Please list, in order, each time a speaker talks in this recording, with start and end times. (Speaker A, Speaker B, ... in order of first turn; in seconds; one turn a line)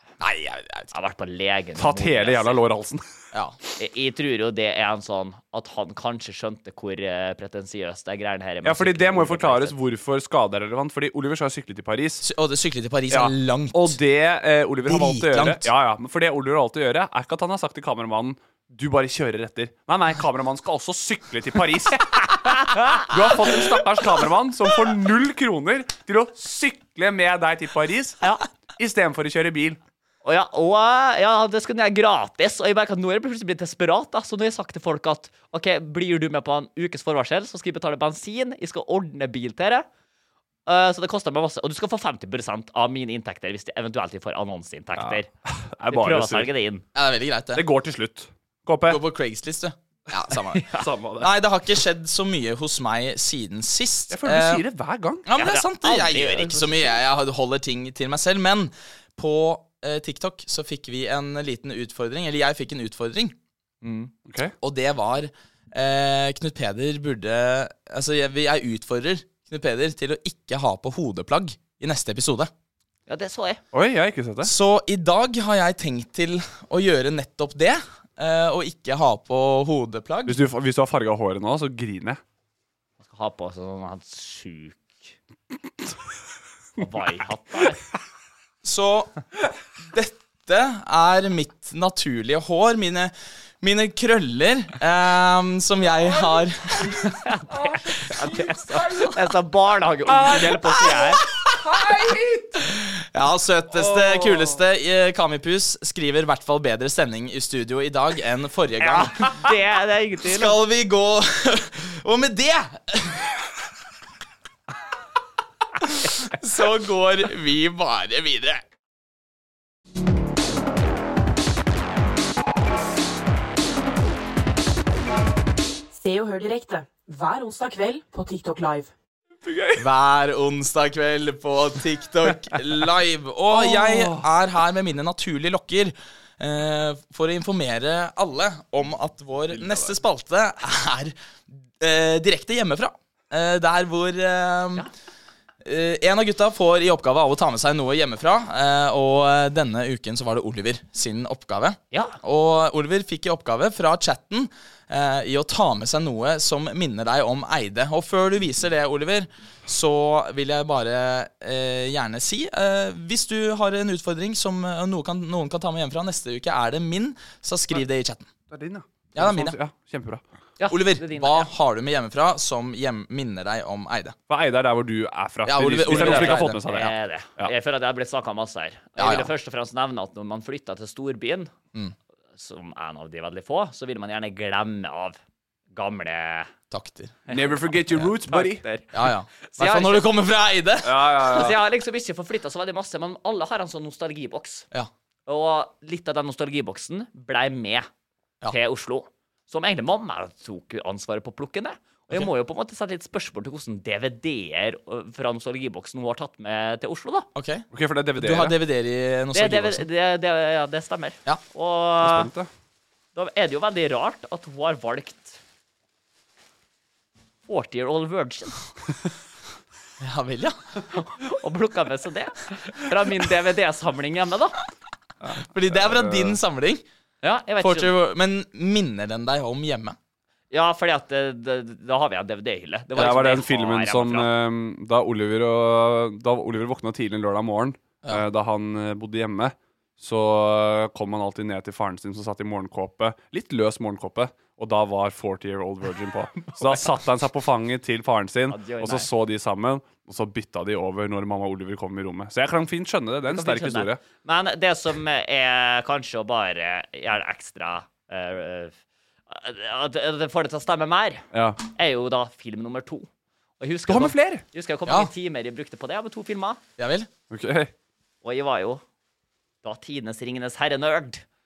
Speaker A: 0.2-0.9
Speaker B: 0.9-2.7
Speaker C: 1.8-3.0
Speaker A: 3.3-3.6
Speaker B: 3.8-9.8
Speaker C: 8.6-12.2
Speaker A: 12.2-14.0
Speaker C: 13.1-22.1
Speaker A: 14.8-15.7
Speaker B: 22.1-23.1
Speaker C: 23.1-28.2
Speaker C: 28.8-29.8
Speaker B: 30.2-39.9
Speaker B: 40.7-45.3
Speaker C: 45.0-46.5
Speaker B: 45.9-46.8
Speaker A: 47.0-47.6
Speaker C: 47.5-49.0
Speaker A: 48.9-50.7
Speaker C: 50.7-51.3
Speaker A: 51.2-54.6
Speaker C: 54.1-55.3
Speaker A: 55.3-63.4
Speaker B: 55.4-56.8
Speaker B: 63.8-64.1
Speaker C: 64.3-64.5
Speaker A: 64.6-72.5
Speaker B: 73.1-73.6
Speaker C: 73.7-74.5
Speaker A: 74.4-80.4
Speaker C: 80.3-82.2
Speaker B: 83.0-85.1
Speaker B: 86.8-87.8
Speaker A: 88.6-89.2
Speaker A: 89.8-97.1
Speaker B: 96.9-101.2
Speaker C: 97.5-98.3
Speaker C: 100.1-102.6
Speaker A: 102.6-109.5
Speaker C: 103.7-104.6
Speaker B: 108.8-110.6
Speaker A: 110.2-113.4
Speaker A: 115.8-118.6
Speaker D: 125.9-128.9
Speaker C: 129.4-129.8
Speaker A: 129.8-144.9
Speaker C: 133.5-134.3
Speaker C: 139.5-140.0
Speaker A: 145.6-168.3
Speaker B: 151.9-152.2
Speaker C: 168.5-170.2
Speaker A: 169.2-169.6
Speaker B: 170.6-171.5
Speaker A: 170.7-174.2
Speaker C: 174.3-177.5
Speaker A: 175.4-176.6
Speaker B: 175.9-181.5
Speaker A: 179.0-179.3
Speaker B: 182.4-185.2
Speaker B: 185.7-186.5
Speaker A: 186.7-187.2
Speaker B: 187.3-190.1
Speaker C: 187.3-188.6
Speaker A: 188.9-191.0
Speaker C: 190.8-191.6
Speaker B: 191.2-194.7
Speaker B: 195.3-197.9
Speaker B: 198.5-207.3
Speaker A: 207.3-209.9
Speaker C: 207.7-208.6
Speaker B: 209.3-212.3
Speaker C: 212.0-212.5
Speaker B: 213.2-215.4
Speaker B: 217.5-218.6
Speaker A: 220.0-220.6
Speaker B: 220.9-224.6
Speaker C: 225.2-226.4
Speaker A: 225.4-226.8
Speaker B: 227.2-227.9
Speaker A: 227.6-230.0
Speaker B: 230.5-234.3
Speaker C: 233.0-254.0
Speaker B: 248.5-249.1
Speaker B: 253.3-258.8
Speaker B: 259.3-263.1
Speaker C: 261.3-261.6
Speaker B: 263.6-266.6
Speaker C: 263.9-264.4
Speaker A: 266.8-267.1
Speaker C: 267.3-267.7
Speaker B: 268.2-268.8
Speaker B: 269.6-271.2